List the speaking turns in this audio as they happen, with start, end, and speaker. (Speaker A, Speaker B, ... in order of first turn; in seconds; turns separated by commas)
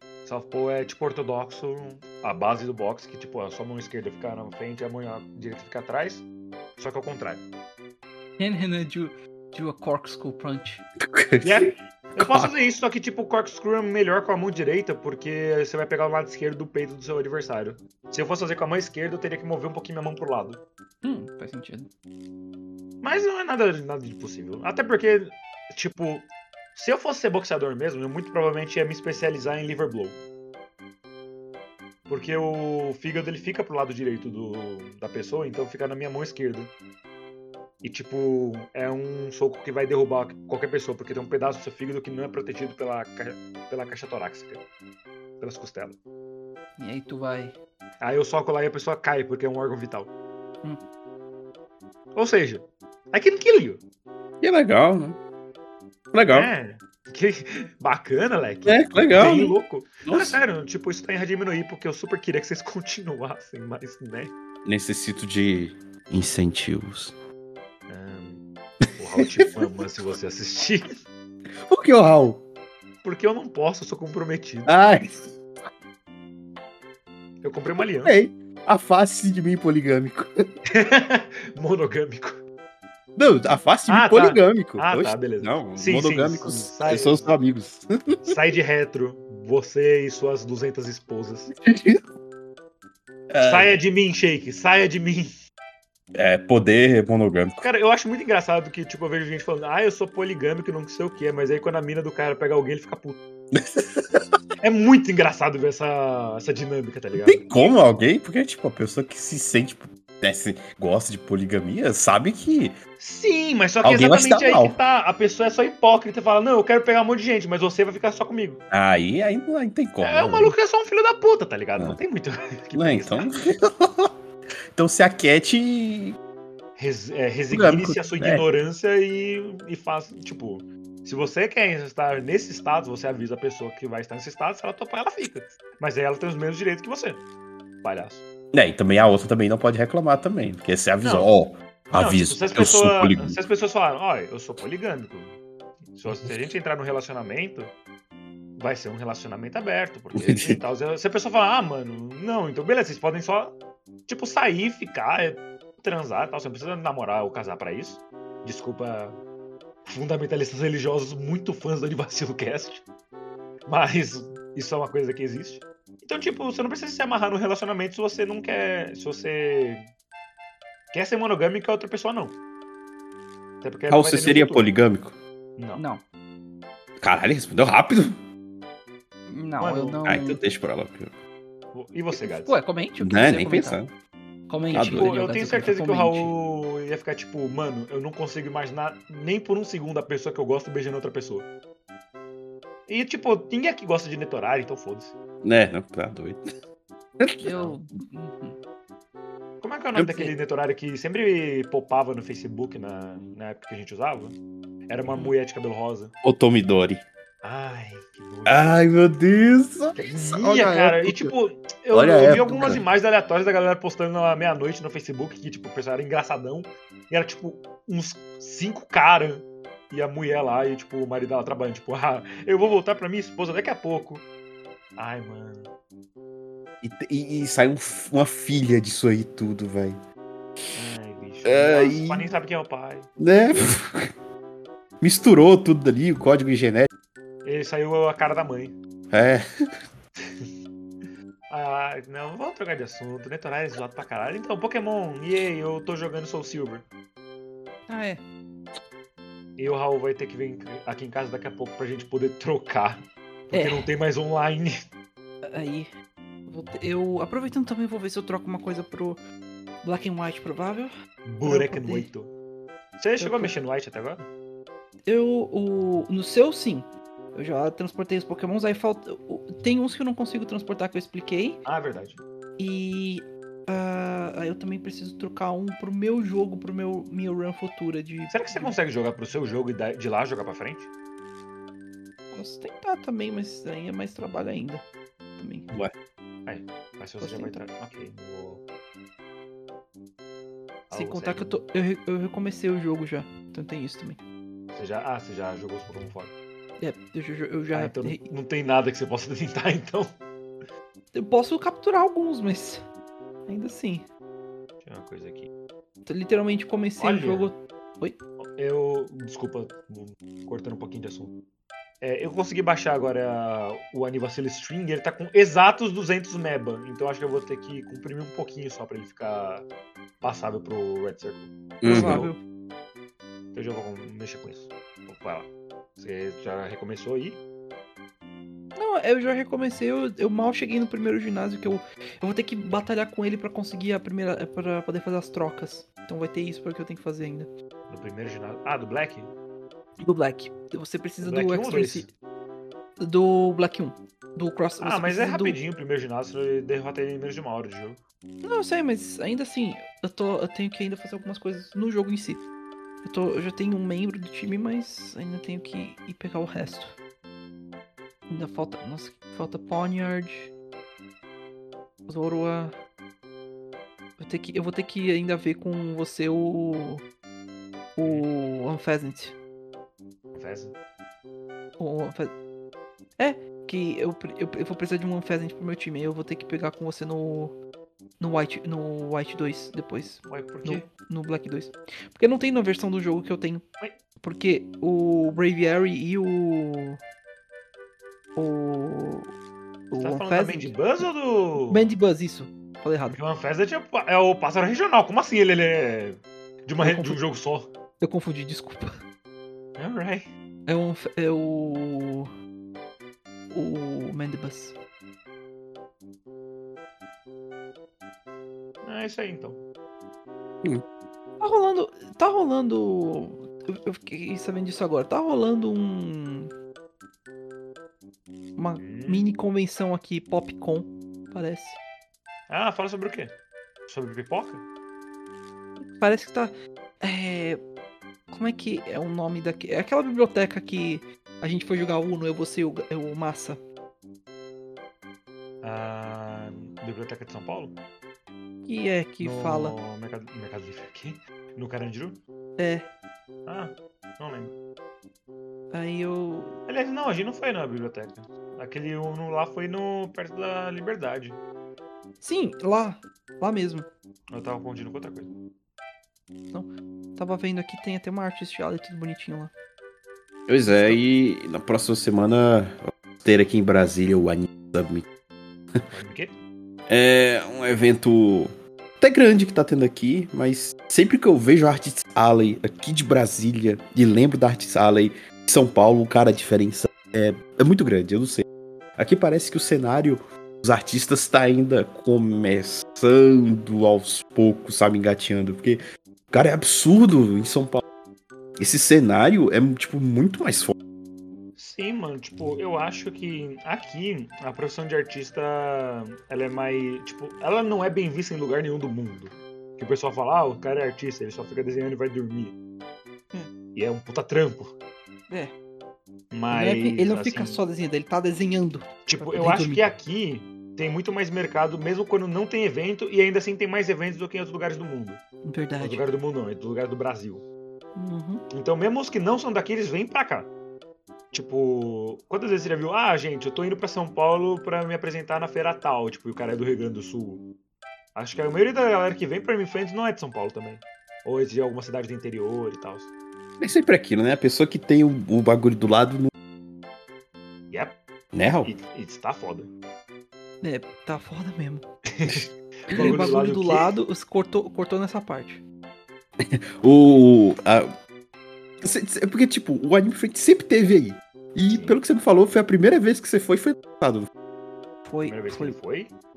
Speaker A: 0.2-6.3, Speaker A: 6.8-7.5, Speaker B: 8.4-10.8, Speaker C: 11.0-12.5, Speaker A: 11.4-20.6, Speaker B: 21.0-21.9, Speaker A: 23.0-30.2, Speaker A: 32.1-36.7, Speaker A: 37.8-44.6, Speaker A: 45.4-46.0, Speaker B: 46.8-47.6, Speaker A: 48.0-50.1, Speaker A: 52.1-53.8, Speaker C: 54.4-55.2, Speaker C: 56.1-56.5, Speaker A: 56.3-64.3, Speaker C: 58.7-59.5, Speaker C: 60.1-60.4, Speaker C: 64.7-67.2, Speaker A: 67.9-68.4, Speaker A: 68.9-70.9, Speaker C: 69.2-69.7, Speaker C: 71.7-72.4, Speaker A: 73.0-74.7, Speaker C: 74.7-75.4, Speaker A: 77.4-78.1, Speaker C: 77.8-80.3, Speaker A: 80.7-82.4, Speaker C: 83.2-88.3, Speaker A: 83.9-87.3, Speaker A: 88.2-91.5, Speaker C: 91.5-92.1, Speaker C: 93.3-93.8, Speaker A: 93.4-95.3, Speaker C: 96.2-97.6, Speaker A: 97.6-103.2, Speaker C: 103.5-104.4, Speaker A: 104.6-107.7, Speaker C: 107.2-112.7, Speaker A: 113.0-118.6, Speaker C: 113.8-114.8, Speaker C: 118.7-120.5, Speaker A: 120.0-123.3, Speaker C: 122.8-124.1, Speaker C: 124.7-126.2, Speaker A: 126.8-137.2, Speaker C: 127.5-128.4, Speaker A: 137.8-138.2, Speaker C: 138.5-143.4, Speaker A: 141.0-141.3, Speaker A: 141.9-145.4, Speaker A: 145.9-147.7, Speaker A: 148.6-159.2, Speaker C: 150.2-150.6, Speaker A: 159.9-162.8, Speaker A: 163.7-169.9, Speaker A: 170.9-172.4, Speaker A: 173.6-174.7, Speaker C: 173.9-175.2, Speaker A: 175.6-175.8, Speaker B: 175.8-176.0, Speaker C: 177.0-178.2, Speaker B: 179.3-180.4, Speaker A: 179.6-180.0, Speaker C: 180.1-181.2, Speaker A: 181.7-182.6, Speaker B: 182.2-183.8, Speaker C: 183.0-183.9, Speaker B: 184.5-186.3, Speaker C: 184.7-185.1, Speaker A: 184.8-191.5, Speaker A: 192.9-195.2, Speaker C: 195.4-196.5, Speaker C: 197.2-197.7, Speaker B: 197.4-198.6, Speaker A: 199.6-204.4, Speaker C: 199.9-200.3, Speaker A: 204.9-206.1, Speaker C: 206.2-207.1, Speaker A: 207.4-208.8, Speaker C: 208.5-211.3, Speaker A: 210.0-224.2, Speaker C: 211.9-212.8, Speaker A: 225.0-225.7, Speaker C: 226.8-230.0, Speaker A: 230.8-233.1, Speaker C: 231.4-232.3, Speaker C: 233.2-234.1, Speaker C: 235.0-236.9, Speaker A: 237.4-238.8, Speaker C: 239.1-239.4, Speaker A: 240.2-240.5, Speaker A: 241.5-246.9, Speaker B: 247.9-248.2, Speaker A: 249.6-254.9, Speaker B: 253.5-253.9, Speaker B: 255.4-255.9, Speaker B: 256.5-259.2, Speaker B: 259.8-260.9, Speaker A: 261.2-262.3, Speaker B: 261.4-262.1, Speaker A: 263.0-264.3, Speaker B: 263.2-263.5, Speaker B: 265.1-271.6, Speaker A: 271.6-272.2, Speaker B: 272.6-278.8, Speaker A: 278.3-280.9, Speaker B: 282.3-284.8, Speaker B: 285.4-285.7, Speaker A: 286.5-288.6, Speaker B: 287.2-287.6, Speaker A: 290.9-291.6, Speaker B: 290.9-294.2, Speaker A: 294.7-296.3, Speaker B: 296.8-298.2, Speaker A: 297.7-300.1, Speaker B: 301.1-302.9, Speaker B: 303.5-304.1, Speaker A: 304.8-305.5, Speaker B: 306.1-308.2, Speaker A: 307.0-307.5, Speaker A: 308.4-311.3, Speaker A: 312.0-319.7, Speaker A: 320.2-322.3, Speaker C: 321.8-322.3, Speaker B: 321.9-322.4, Speaker A: 323.5-327.4, Speaker B: 328.8-337.5, Speaker A: 337.9-339.3, Speaker B: 340.0-342.1, Speaker A: 341.2-342.1, Speaker B: 343.0-345.6, Speaker A: 344.8-348.0, Speaker B: 348.4-352.5, Speaker B: 353.0-357.0, Speaker B: 358.3-360.5, Speaker B: 362.1-362.8, Speaker B: 364.2-367.0, Speaker B: 368.0-369.4, Speaker A: 368.0-368.3, Speaker A: 370.4-370.7, Speaker B: 371.8-372.3, Speaker B: 373.2-377.6, Speaker B: 378.2-383.6, Speaker A: 380.3-380.9, Speaker B: 384.2-387.0, Speaker B: 388.4-389.3, Speaker B: 389.9-391.1, Speaker A: 390.0-391.9, Speaker B: 391.6-393.2, Speaker A: 393.1-397.7, Speaker B: 396.8-397.2, Speaker B: 398.0-399.0, Speaker A: 399.8-400.3, Speaker B: 400.7-402.3, Speaker B: 403.5-404.8, Speaker A: 408.8-409.6, Speaker B: 411.4-416.5, Speaker B: 418.6-421.8, Speaker A: 418.8-419.3, Speaker A: 422.5-423.4, Speaker A: 423.9-424.6, Speaker B: 425.8-427.6, Speaker B: 428.3-433.6, Speaker A: 435.6-437.8, Speaker B: 438.6-439.8, Speaker A: 439.2-442.2, Speaker B: 442.6-442.9, Speaker A: 443.5-444.6, Speaker B: 445.7-446.6, Speaker A: 446.7-451.4, Speaker B: 452.2-453.9, Speaker A: 454.3-455.3, Speaker B: 456.5-459.5, Speaker C: 460.5-465.1, Speaker A: 465.9-466.4, Speaker C: 466.9-478.4, Speaker C: 479.0-485.8, Speaker C: 486.3-487.8, Speaker C: 488.6-490.8, Speaker A: 491.6-502.6, Speaker A: 503.8-504.7, Speaker B: 505.3-505.5, Speaker A: 506.3-507.6, Speaker B: 506.5-509.9, Speaker A: 509.1-515.2, Speaker B: 515.5-516.0, Speaker A: 515.8-517.5, Speaker B: 518.0-518.4, Speaker A: 518.5-520.5, Speaker A: 521.3-527.4, Speaker A: 528.1-533.1, Speaker C: 533.6-536.3, Speaker A: 537.7-538.0, Speaker C: 538.3-538.7, Speaker A: 538.6-539.7, Speaker B: 540.6-541.9, Speaker A: 542.1-544.0, Speaker B: 542.9-545.6, Speaker C: 546.4-547.9, Speaker C: 548.8-554.3, Speaker A: 551.7-552.0, Speaker B: 555.1-555.8, Speaker A: 555.2-556.1